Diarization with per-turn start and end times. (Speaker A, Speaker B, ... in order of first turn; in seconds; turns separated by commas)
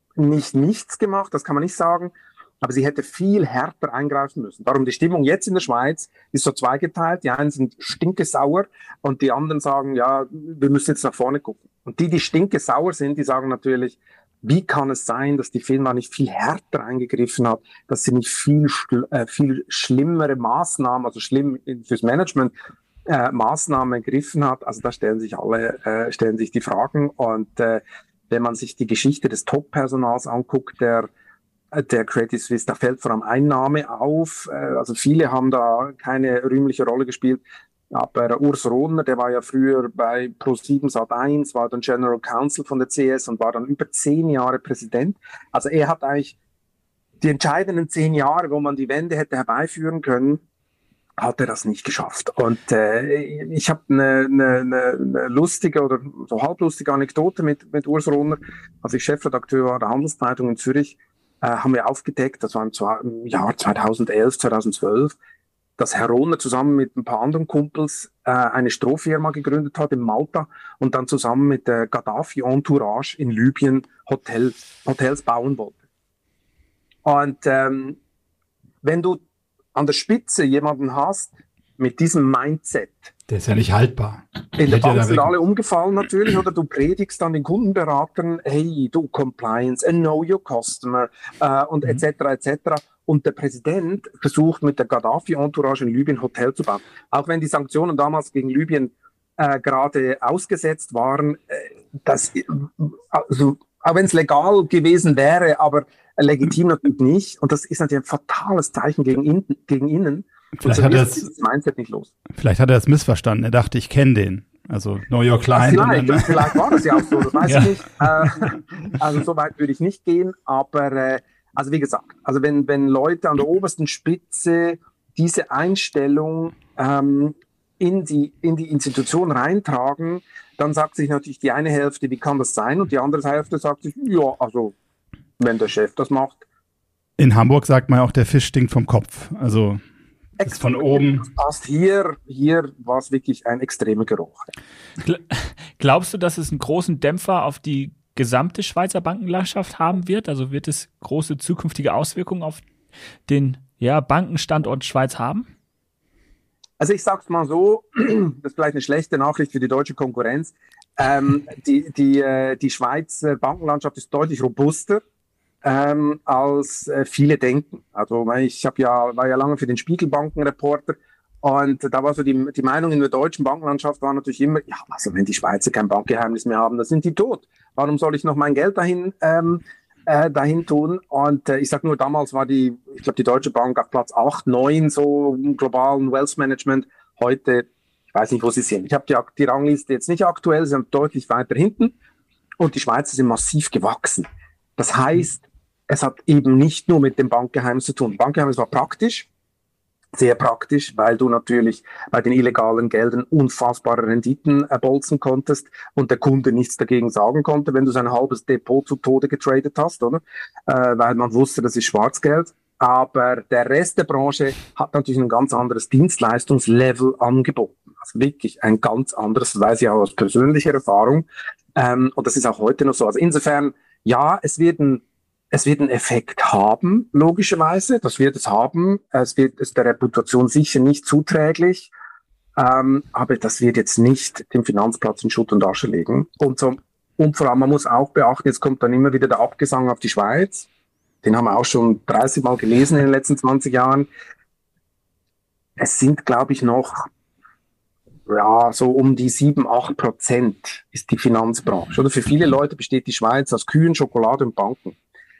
Speaker A: 0.2-22.5, Speaker A: 23.1-31.1, Speaker A: 31.7-46.4, Speaker A: 47.2-50.4, Speaker A: 51.2-65.2, Speaker A: 65.8-75.8, Speaker A: 77.0-78.0, Speaker A: 78.8-79.2, Speaker A: 79.7-83.1, Speaker B: 83.3-85.3, Speaker A: 84.6-112.1, Speaker B: 110.6-111.3, Speaker B: 112.3-117.5, Speaker A: 115.5-134.8, Speaker A: 135.4-136.4, Speaker B: 137.2-139.8, Speaker A: 140.4-144.5, Speaker B: 140.4-141.2, Speaker C: 145.0-152.7, Speaker C: 153.3-155.4, Speaker A: 156.8-165.0, Speaker A: 165.6-191.9, Speaker A: 192.6-199.3, Speaker A: 200.1-231.9, Speaker A: 232.6-240.7, Speaker A: 241.2-244.1, Speaker A: 245.8-247.1, Speaker A: 248.3-255.0